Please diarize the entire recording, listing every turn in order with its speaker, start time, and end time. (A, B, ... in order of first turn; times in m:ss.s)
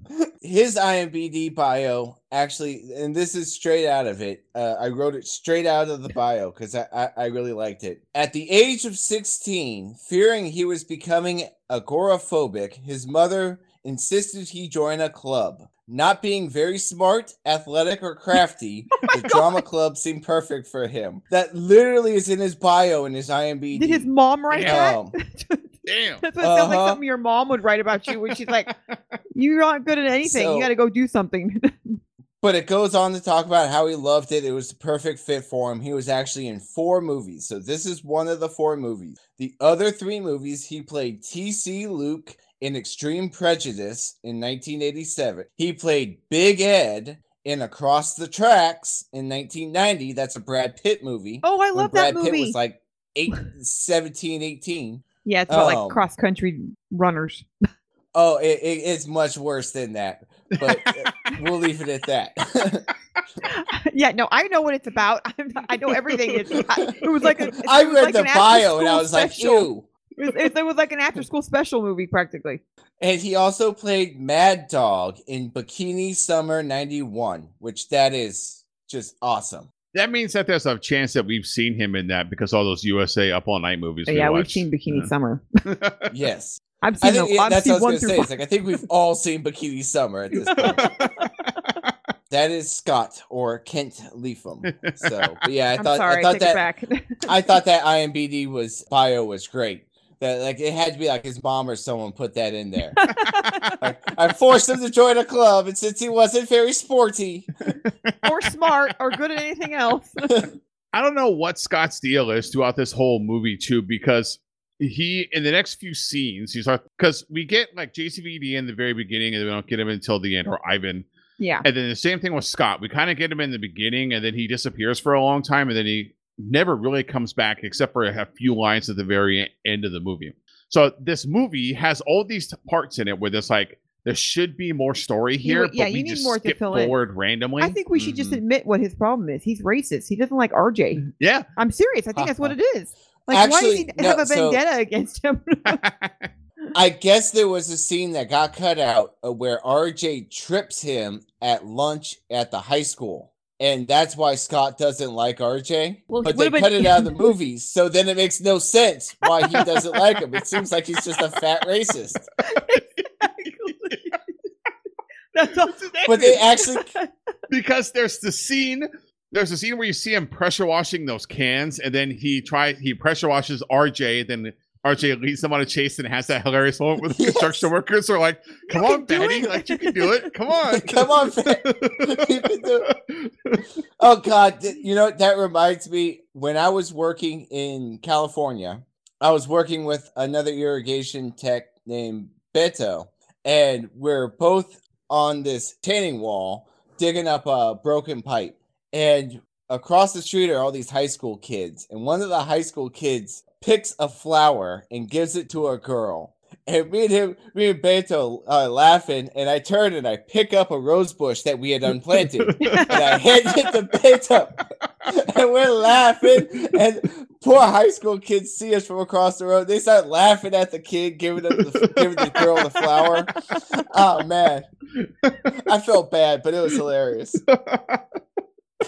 0:00.4-0:24.1 A
0:19.0-0:19.4 B
0:23.7-0:28.7 B
0:24.5-0:24.8 C
0:24.6-0:25.1 A
0:25.8-0:26.2 C
0:26.4-0:27.0 A
0:28.1-0:29.2 C
0:29.3-0:32.0 B
0:30.2-0:30.7 A
0:32.4-0:56.0 A
0:51.4-0:52.6 B
0:55.2-0:57.4 B
0:58.1-1:02.9 A
1:03.4-1:09.7 B
1:05.9-1:06.6 C
1:07.6-1:09.9 A
1:10.2-1:12.6 B
1:13.0-1:19.7 A
1:19.9-1:25.1 C
1:24.1-1:25.6 B
1:25.7-1:26.1 C
1:26.1-1:30.8 A
1:26.8-1:28.3 B
1:30.4-1:31.9 C
1:30.6-1:31.1 B
1:32.3-1:36.6 A
1:34.6-1:35.3 C
1:35.8-1:37.3 B
1:37.2-1:43.0 A
1:43.0-1:43.8 B
1:43.1-1:43.8 C
1:43.8-1:47.5 A
1:47.8-1:48.2 C
1:48.2-1:50.4 B
1:50.9-2:01.1 C
2:01.4-2:01.6 B
2:01.6-2:17.8 C
2:15.4-2:17.0 B
2:17.6-2:25.8 B
2:17.9-2:18.4 A
2:21.1-2:21.4 C
2:22.2-2:22.5 A
2:23.3-2:24.6 A
2:25.6-2:26.3 C
2:26.7-2:42.2 A
2:36.1-2:37.2 B
2:42.4-2:44.2 B
2:42.5-2:44.2 C
2:45.3-2:47.1 B
2:46.0-2:46.9 A
2:47.5-3:03.6 C
2:57.2-2:57.7 A
2:58.7-3:00.3 B
3:00.7-3:02.9 A
3:04.0-3:44.7 A
3:32.2-3:32.9 C
3:32.6-3:33.2 B
3:41.6-3:42.8 C
3:45.0-3:45.5 C
3:45.6-3:47.4 A
3:47.5-3:48.0 C